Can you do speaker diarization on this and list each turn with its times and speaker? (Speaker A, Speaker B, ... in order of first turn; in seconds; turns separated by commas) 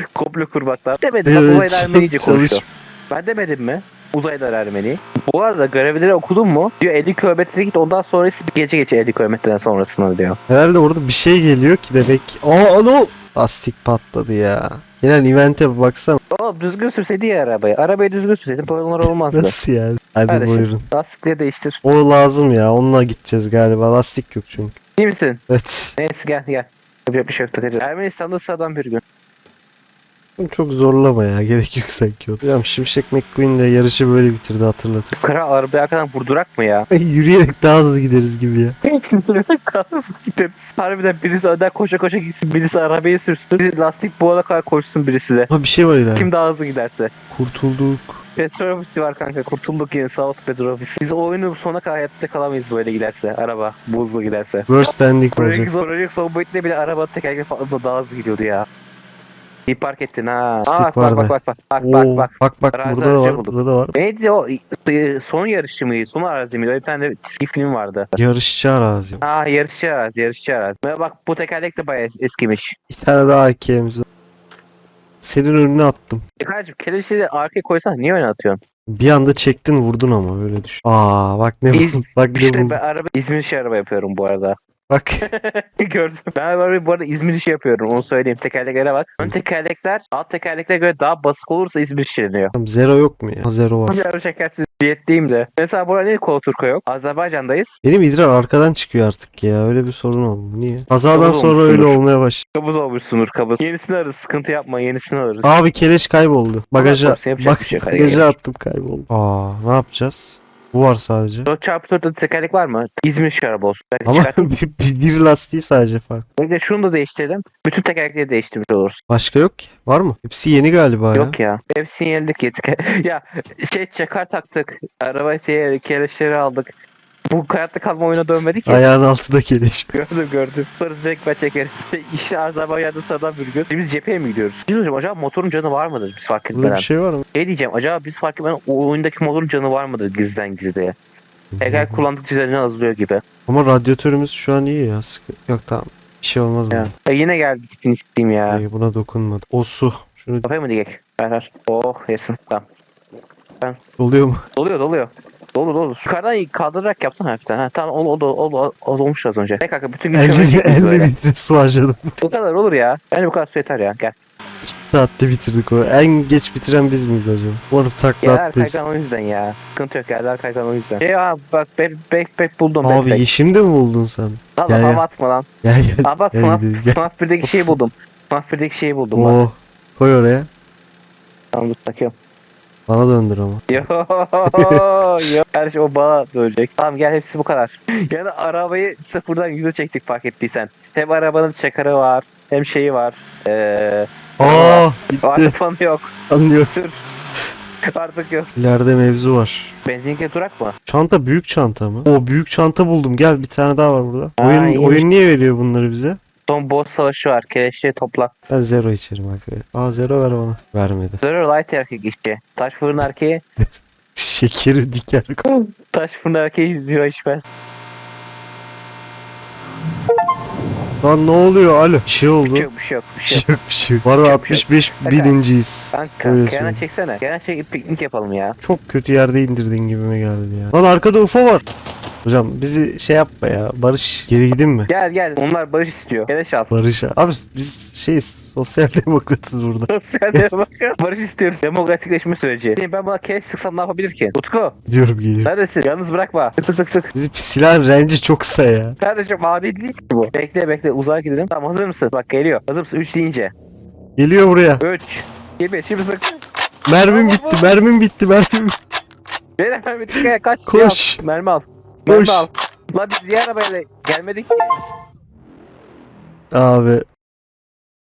Speaker A: 0.1-10.4, Speaker B: 1.2-2.6, Speaker B: 10.5-16.2, Speaker A: 16.3-19.6, Speaker B: 19.0-20.9, Speaker A: 20.3-21.8, Speaker B: 21.8-24.7, Speaker A: 25.0-25.4, Speaker B: 25.5-26.0, Speaker A: 26.0-29.0, Speaker B: 30.4-35.1, Speaker A: 35.2-36.9, Speaker B: 36.9-38.8, Speaker A: 38.8-45.5, Speaker B: 45.5-46.3, Speaker A: 46.2-47.1, Speaker B: 47.3-48.2, Speaker A: 48.4-54.7, Speaker B: 54.7-55.7, Speaker A: 55.4-58.7, Speaker A: 59.7-68.1, Speaker B: 60.6-64.0, Speaker B: 68.2-69.2, Speaker A: 69.2-72.8, Speaker B: 72.9-74.0, Speaker B: 75.2-76.2, Speaker A: 76.4-78.6, Speaker B: 78.9-82.8, Speaker A: 81.7-84.6, Speaker B: 84.9-85.3, Speaker A: 85.3-92.5, Speaker B: 92.5-94.0, Speaker A: 93.9-97.7, Speaker B: 97.8-102.4, Speaker A: 101.1-102.0, Speaker A: 102.5-105.6, Speaker B: 105.4-111.5, Speaker A: 106.8-108.3, Speaker A: 111.5-114.5, Speaker B: 114.0-116.3, Speaker A: 116.4-119.0, Speaker B: 119.1-121.4, Speaker A: 121.2-126.7, Speaker A: 127.3-128.8, Speaker B: 128.7-129.9, Speaker A: 129.9-140.9, Speaker B: 136.5-137.2, Speaker B: 141.5-142.1, Speaker A: 141.6-143.2, Speaker B: 143.5-146.9, Speaker A: 146.7-148.6, Speaker B: 148.5-150.5, Speaker A: 150.4-152.6, Speaker B: 154.0-154.4, Speaker A: 154.6-161.1, Speaker B: 160.1-162.2, Speaker A: 162.2-164.1, Speaker B: 164.6-168.8, Speaker A: 168.2-173.2, Speaker B: 172.8-175.0, Speaker A: 174.6-175.5, Speaker B: 175.6-177.8, Speaker A: 176.1-179.4, Speaker B: 179.1-180.5, Speaker A: 181.5-182.1, Speaker B: 182.9-183.8, Speaker A: 183.7-196.1, Speaker B: 184.5-185.3, Speaker B: 194.4-195.6, Speaker B: 196.3-196.8, Speaker A: 196.8-197.0, Speaker A: 197.9-198.5, Speaker B: 198.6-199.7, Speaker A: 199.8-200.8, Speaker B: 200.9-206.2, Speaker A: 204.4-205.1, Speaker A: 206.5-208.3, Speaker B: 208.5-211.2, Speaker A: 211.2-213.4, Speaker B: 213.8-215.4, Speaker A: 215.5-217.5, Speaker B: 221.0-222.7, Speaker A: 222.4-223.5, Speaker B: 223.3-226.8, Speaker A: 224.2-225.3, Speaker A: 225.9-228.6, Speaker B: 228.6-231.7, Speaker B: 232.2-234.9, Speaker A: 234.9-236.7, Speaker B: 236.7-240.5, Speaker A: 239.9-244.8, Speaker B: 244.9-245.5, Speaker A: 245.4-247.1, Speaker B: 247.1-249.0, Speaker A: 249.0-253.5, Speaker B: 254.2-254.8, Speaker A: 254.8-256.4, Speaker B: 256.9-258.8, Speaker A: 257.0-257.8, Speaker A: 259.6-264.8, Speaker B: 260.7-261.2, Speaker B: 262.1-262.5, Speaker B: 266.5-267.0